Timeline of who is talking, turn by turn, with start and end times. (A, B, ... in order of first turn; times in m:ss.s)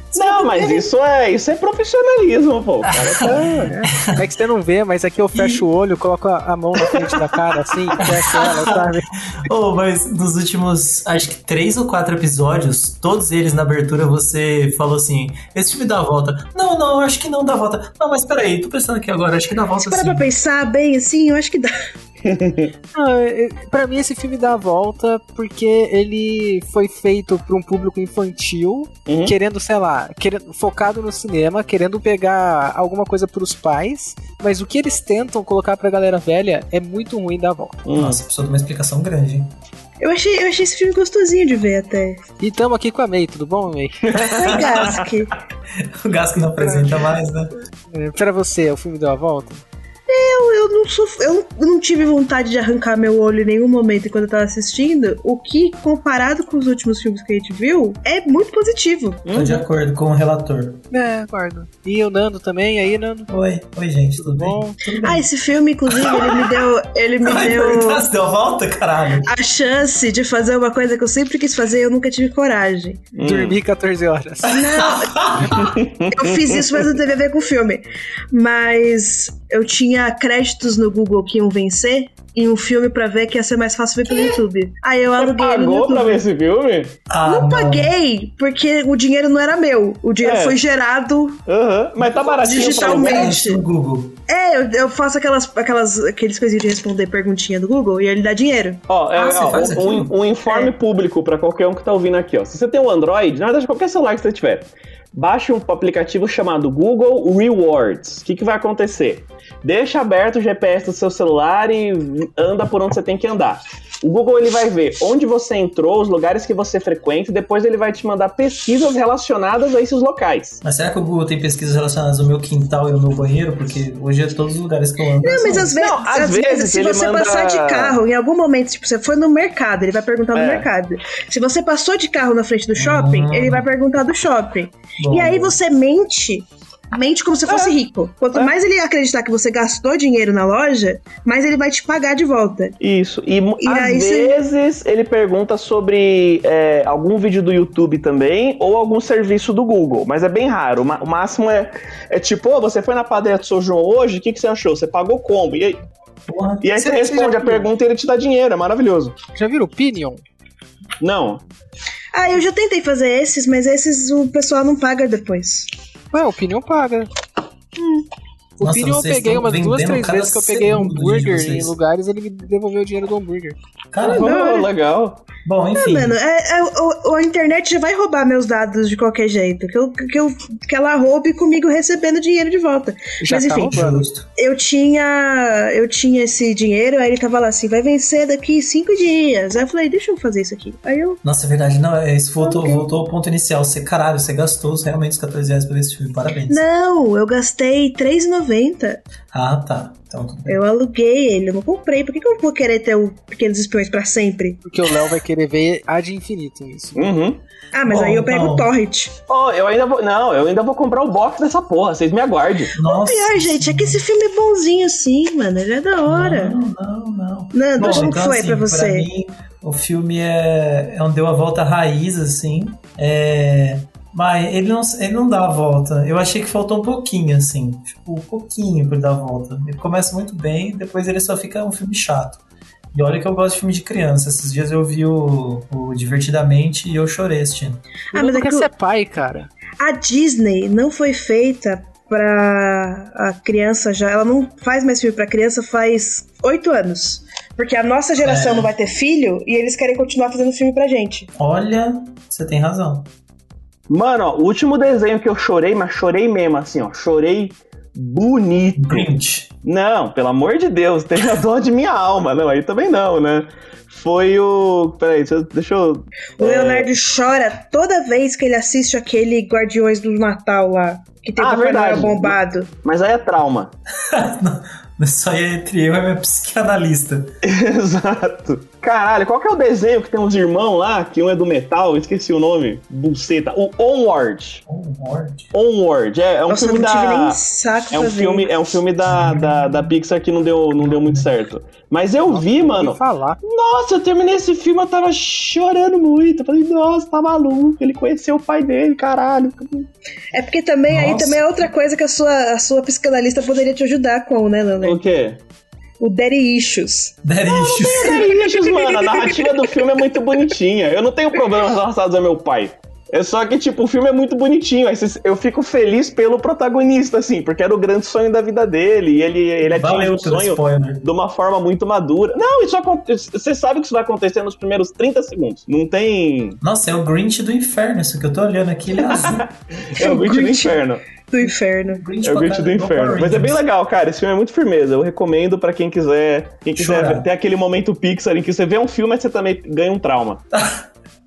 0:00.1-0:03.7 A
0:00.2-0:00.9 B
0:02.9-0:04.2 C
0:03.3-0:09.1 D
0:05.4-0:05.6 C
0:08.0-0:08.8 C
0:09.4-0:20.3 C
0:19.8-0:21.7 B
0:22.2-0:22.7 A
0:22.9-0:37.8 D
0:29.1-0:29.3 A
0:37.8-0:38.2 A
0:38.0-0:39.5 C
0:40.0-0:42.2 B
0:42.4-0:44.3 D
0:44.1-0:45.0 A
0:44.3-0:45.3 B
0:44.4-0:44.9 C
0:45.8-0:47.5 C
0:46.6-0:47.0 D
0:47.9-0:49.6 D
0:50.1-0:59.2 B
0:59.2-0:59.6 A
0:59.3-1:00.8 C
1:00.9-1:03.3 D
1:03.3-1:05.2 C
1:04.2-1:04.8 D
1:05.0-1:08.1 B
1:05.9-1:06.7 C
1:07.2-1:09.3 C
1:09.2-1:13.0 B
1:13.1-1:13.6 A
1:13.2-1:14.6 D
1:14.4-1:15.4 B
1:14.5-1:15.6 C
1:15.5-1:16.8 A
1:16.1-1:26.2 B
1:25.2-1:26.9 A
1:27.1-1:27.9 C
1:27.2-1:31.4 B
1:30.2-1:30.6 A
1:31.5-1:33.3 A
1:32.0-1:34.2 C
1:32.4-1:33.6 B
1:34.3-1:38.8 B
1:38.9-2:00.6 A
1:39.2-1:40.1 C
1:40.5-1:40.7 B
2:00.6-2:05.7 C
2:05.2-2:22.8 B
2:05.8-2:08.0 A
2:10.3-2:10.7 A
2:12.7-2:13.7 C
2:15.0-2:15.6 C
2:17.4-2:17.8 A
2:22.8-2:35.8 A
2:23.6-2:24.4 B
2:36.3-2:36.6 C
2:36.6-2:39.2 A
2:36.8-2:37.7 D
2:39.4-2:40.2 D
2:41.0-2:41.4 A
2:42.1-2:45.7 B
2:46.1-2:47.1 D
2:47.8-2:48.0 B
2:48.6-2:53.6 D
2:48.6-2:51.7 C
2:53.9-2:54.4 C
2:54.0-2:54.7 B
2:54.1-2:55.2 A
2:55.4-2:56.2 C
2:55.7-3:03.8 B
3:03.2-3:04.0 D
3:03.6-3:04.3 C
3:04.4-3:11.2 B
3:11.2-3:16.6 C
3:12.4-3:12.9 B
3:16.5-3:19.0 B
3:19.3-3:20.6 C
3:20.5-3:24.6 B
3:24.6-3:27.1 D
3:26.9-3:27.4 A
3:27.7-3:29.1 B
3:27.8-3:28.7 C
3:29.3-3:32.7 A
3:32.7-3:34.0 C
3:32.8-3:36.5 B
3:36.1-3:52.4 C
3:37.5-3:39.1 B
3:52.9-3:57.8 C
3:58.1-3:59.5 D
3:58.1-3:58.7 B
3:59.8-4:11.3 B
4:08.2-4:08.7 C
4:11.4-4:13.1 C
4:13.9-4:19.1 A
4:18.8-4:19.5 C
4:19.6-4:26.9 A
4:26.4-4:32.7 B
4:31.4-4:33.7 A
4:34.0-4:37.3 C
4:37.4-4:44.6 A
4:44.7-4:45.5 C
4:45.5-4:47.4 A
4:46.5-4:48.7 B
4:47.9-4:59.9 A
4:49.0-4:49.9 C
4:50.8-4:51.3 C
4:52.3-4:53.4 D
5:00.3-5:05.0 B
5:00.9-5:01.7 C
5:04.8-5:05.4 A
5:06.0-5:09.7 B
5:07.2-5:08.3 C
5:07.5-5:26.6 A
5:19.6-5:21.0 C
5:26.6-5:29.4 C
5:29.0-5:31.0 A
5:29.9-5:32.0 B
5:31.9-5:33.6 C
5:32.2-5:40.4 A
5:36.8-5:37.3 C
5:40.5-5:40.9 C